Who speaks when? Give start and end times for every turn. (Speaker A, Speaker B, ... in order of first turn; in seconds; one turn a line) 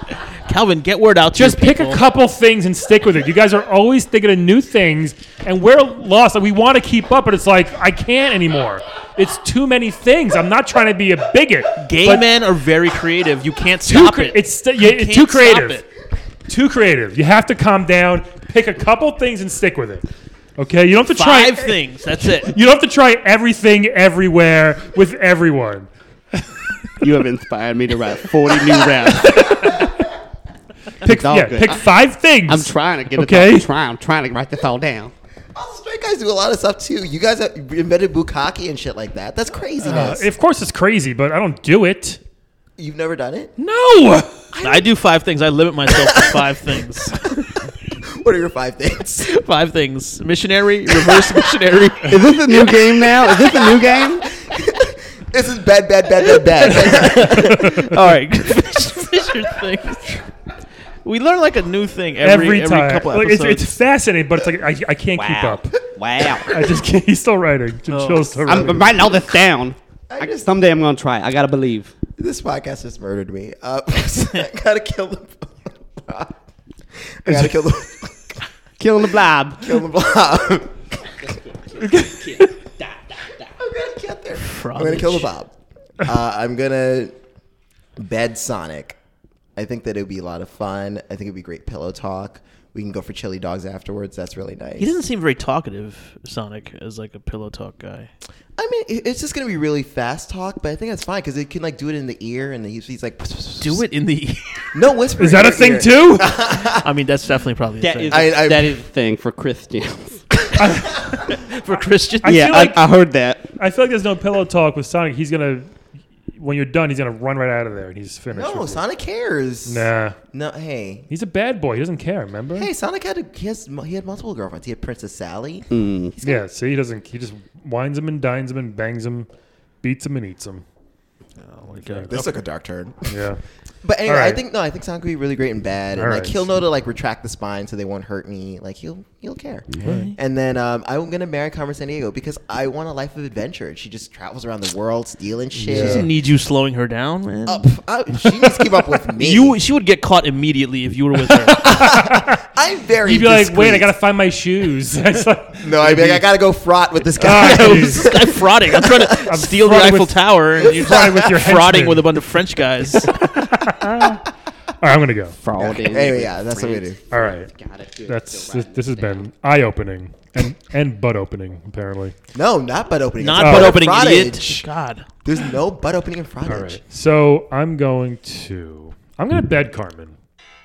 Speaker A: 0.5-2.0
Speaker B: 1.3-12.3
Speaker A: 11.8-15.9
Speaker B: 13.9-15.8
Speaker B: 16.5-20.1
Speaker B: 20.6-26.5
Speaker A: 21.1-22.6
Speaker C: 27.0-29.8
Speaker B: 29.1-30.0
Speaker B: 31.0-33.7
Speaker C: 31.0-31.9
Speaker C: 32.5-35.1
Speaker D: 35.5-40.3
Speaker B: 39.8-42.2
Speaker D: 42.8-43.5
Speaker B: 43.6-44.5
Speaker D: 44.5-44.9
Speaker A: 44.6-47.6
Speaker D: 45.9-46.5
Speaker D: 48.2-49.3
Speaker A: 49.2-53.5
Speaker D: 51.0-51.4
Speaker C: 52.0-54.3
Speaker D: 54.4-57.7
Speaker A: 56.2-60.2
Speaker B: 56.9-57.9
Speaker A: 61.0-63.7
Speaker B: 62.2-65.8
Speaker C: 65.2-66.5
Speaker B: 66.5-68.9
Speaker A: 67.9-68.7
Speaker C: 68.5-71.9
Speaker D: 70.1-70.5
Speaker D: 72.2-76.3
Speaker D: 77.0-78.4
Speaker C: 78.8-79.8
Speaker D: 79.6-81.1
Speaker C: 81.3-83.5
Speaker B: 81.8-82.5
Speaker D: 83.6-87.1
Speaker A: 84.4-85.3
Speaker D: 88.0-89.0
Speaker D: 89.6-94.9
Speaker A: 94.8-98.1
Speaker D: 98.6-103.8
Speaker A: 103.6-104.7
Speaker D: 104.7-106.9
Speaker B: 105.2-106.3
Speaker A: 106.7-108.4
Speaker C: 107.8-110.2
Speaker D: 108.1-108.8
Speaker B: 110.6-111.1
Speaker A: 111.1-112.6
Speaker B: 112.2-112.9
Speaker C: 112.2-113.5
Speaker B: 113.6-115.7
Speaker B: 116.4-118.8
Speaker D: 118.3-121.1
Speaker B: 119.7-120.2
Speaker B: 121.1-122.7
Speaker D: 122.5-126.4
Speaker C: 125.7-126.2
Speaker B: 126.2-129.3
Speaker B: 129.8-130.6
Speaker A: 131.4-132.4
Speaker B: 131.7-132.2
Speaker D: 132.1-133.2
Speaker B: 133.1-133.4
Speaker D: 133.8-146.1
Speaker B: 134.1-134.4
Speaker B: 135.9-136.5
Speaker B: 139.8-140.1
Speaker A: 139.8-140.2
Speaker B: 145.5-146.1
Speaker A: 145.7-147.7
Speaker D: 147.5-149.6
Speaker A: 149.1-151.9
Speaker B: 151.4-152.4
Speaker D: 151.5-153.9
Speaker B: 153.1-156.3
Speaker D: 155.6-159.3
Speaker B: 157.2-158.1
Speaker A: 157.2-163.2
Speaker B: 159.2-162.1
Speaker D: 160.8-161.1
Speaker B: 162.9-164.3
Speaker B: 164.8-165.4
Speaker C: 165.4-169.3
Speaker D: 165.6-167.0
Speaker B: 167.1-167.5
Speaker B: 168.1-172.2
Speaker D: 172.3-174.7
Speaker A: 173.2-175.1
Speaker B: 173.4-173.8
Speaker D: 175.2-176.8
Speaker B: 176.4-180.1